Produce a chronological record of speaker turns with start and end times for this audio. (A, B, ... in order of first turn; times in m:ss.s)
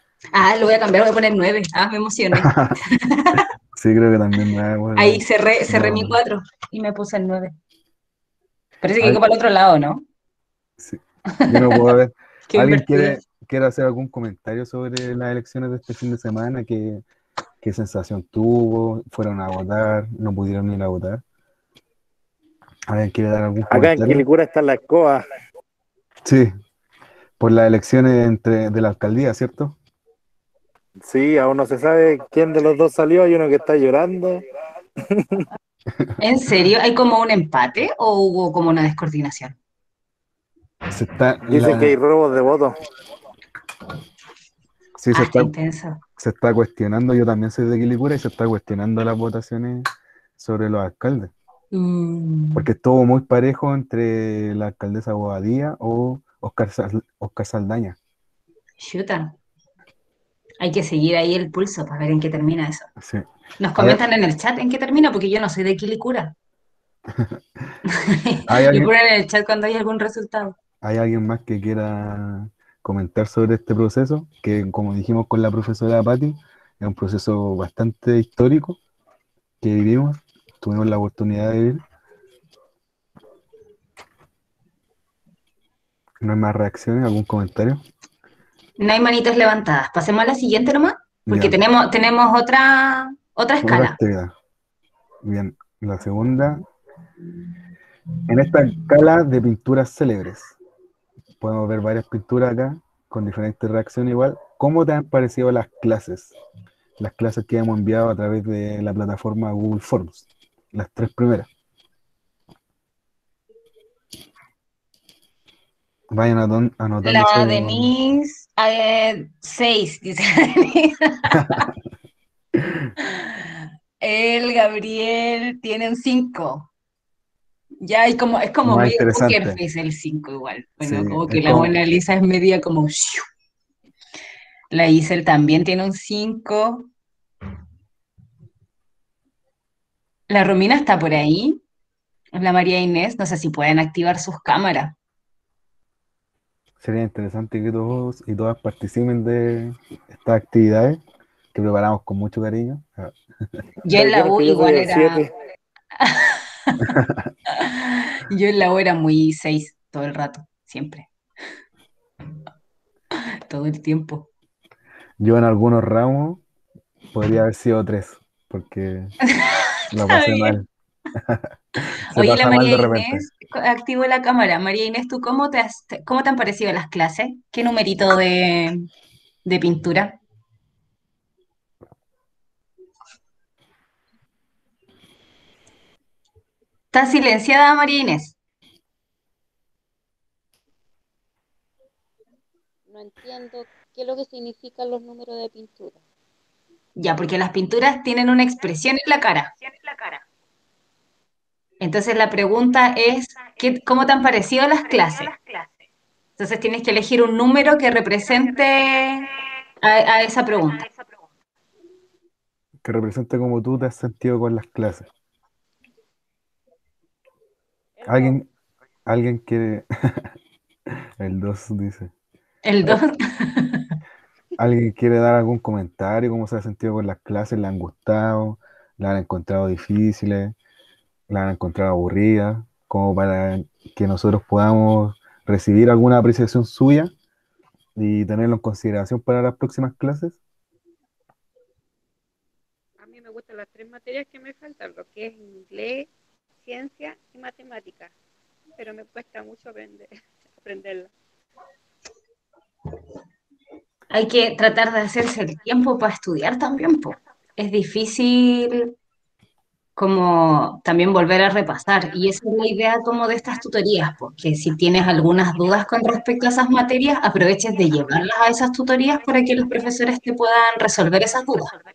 0:00.3-0:03.4 A
0:02.4-0:02.8 B
0:03.8-0:06.2 B
0:05.0-0:07.6 A
0:08.8-0:10.0 A
0:10.8-0:17.0 B
0:11.4-0:11.8 A
0:12.5-0:13.2 A
0:17.6-0:21.2 B
0:22.9-0:24.2 B
0:23.7-0:25.2 C
0:26.2-0:26.5 B
0:27.4-0:29.8 B
0:31.0-0:34.4 C
0:35.1-0:35.5 C
0:36.2-0:39.6 A
0:40.9-0:42.0 B
0:41.5-0:42.7 C
0:45.0-0:45.5 B
0:45.1-0:46.0 A
0:46.2-0:49.9 B
0:50.4-0:51.3 B
0:51.7-0:52.7 A
0:52.5-0:58.0 B
0:58.8-0:59.3 A
1:00.6-1:02.9 A
1:03.0-1:04.0 B
1:03.6-1:06.3 A
1:07.1-1:07.7 B
1:07.9-1:10.6 A
1:08.5-1:08.9 B
1:10.8-1:18.8 B
1:19.6-1:21.8 B
1:26.2-1:27.8 B
1:28.8-1:34.0 A
1:31.3-1:31.6 B
1:33.6-1:34.3 B
1:35.2-1:36.6 B
1:38.3-1:40.6 B
1:41.4-1:46.4 B
1:47.0-1:51.5 B
1:56.1-1:57.9 B
1:57.0-2:01.7 A
2:01.3-2:01.6 B
2:03.0-2:06.7 A
2:07.8-2:13.2 A
2:08.6-2:09.6 B
2:10.8-2:11.7 B
2:14.7-2:16.9 A
2:20.3-2:21.6 A
2:22.3-2:25.0 A
2:26.8-2:31.0 B
2:31.5-2:33.2 B
2:33.8-2:35.2 A
2:33.9-2:35.3 C
2:36.0-2:36.8 A
2:36.8-2:37.3 B
2:37.5-2:41.1 A
2:43.5-2:44.3 A
2:45.2-2:46.4 B
2:47.1-2:49.1 B
2:49.3-2:50.6 A
2:49.9-2:51.5 B
2:52.1-2:53.3 B
2:52.1-2:58.8 A
2:59.4-3:00.2 A
3:06.9-3:08.4 A
3:12.9-3:16.0 D
3:17.0-3:19.5 A
3:21.8-3:25.4 A
3:26.4-3:29.3 A
3:29.8-3:30.9 A
3:32.8-3:35.1 B
3:38.0-3:38.5 B
3:39.1-3:40.3 B
3:41.2-3:42.1 B
3:42.6-3:43.9 A
3:44.6-3:50.6 B
3:51.3-3:57.1 B
3:58.0-4:00.4 B
4:03.0-4:06.1 D
4:06.6-4:08.1 D
4:08.8-4:11.1 D
4:14.1-4:18.9 A
4:20.0-4:31.7 A